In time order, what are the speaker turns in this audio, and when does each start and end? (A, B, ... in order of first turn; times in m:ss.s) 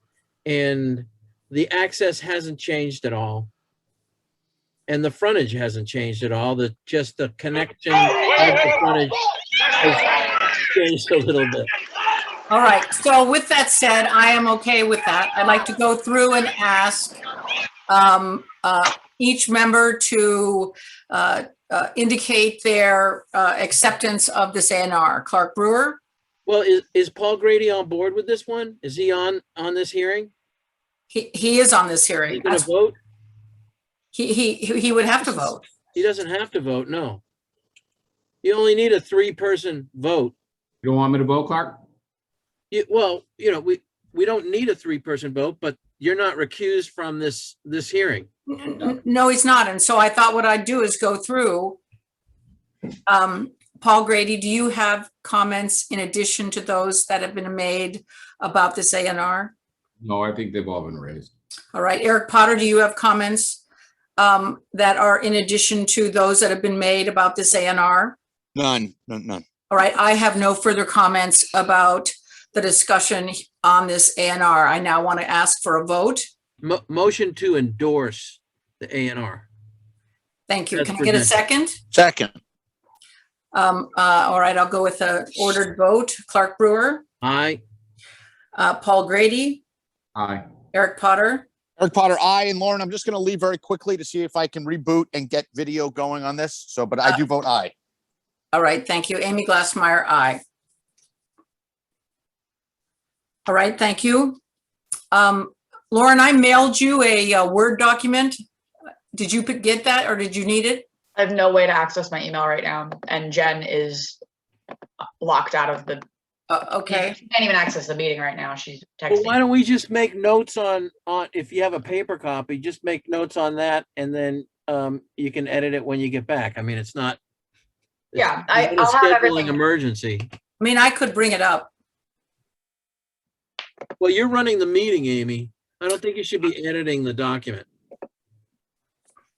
0:00.4-0:03.5 A
0:04.9-0:09.2 A
0:09.8-0:11.7 A
0:12.5-0:17.2 B
0:17.9-0:26.0 B
0:26.4-0:30.3 A
0:31.1-0:32.7 B
0:32.3-0:33.0 A
0:34.1-0:35.6 B
0:35.9-0:37.2 A
0:38.4-0:40.3 A
0:40.8-0:41.8 C
0:42.7-0:48.3 A
0:48.5-0:51.8 B
0:53.0-0:59.5 B
1:00.0-1:01.3 C
1:01.7-1:03.6 B
1:04.2-1:08.2 B
1:08.5-1:09.4 D
1:09.7-1:16.3 B
1:16.6-1:19.5 A
1:20.5-1:21.8 B
1:20.7-1:21.4 A
1:21.9-1:22.3 D
1:23.5-1:27.0 B
1:27.2-1:27.6 A
1:28.5-1:29.6 B
1:30.1-1:30.4 C
1:30.7-1:31.4 B
1:31.8-1:37.7 D
1:38.5-1:40.4 B
1:43.4-1:44.4 B
1:45.1-1:48.4 B
1:49.1-1:50.8 B
1:51.2-1:54.2 E
1:55.0-1:56.0 E
1:56.5-1:57.2 B
1:56.9-1:59.4 E
1:59.1-2:07.2 A
2:08.1-2:10.3 A
2:08.2-2:09.6 E
2:10.6-2:11.7 B
2:14.0-2:17.7 A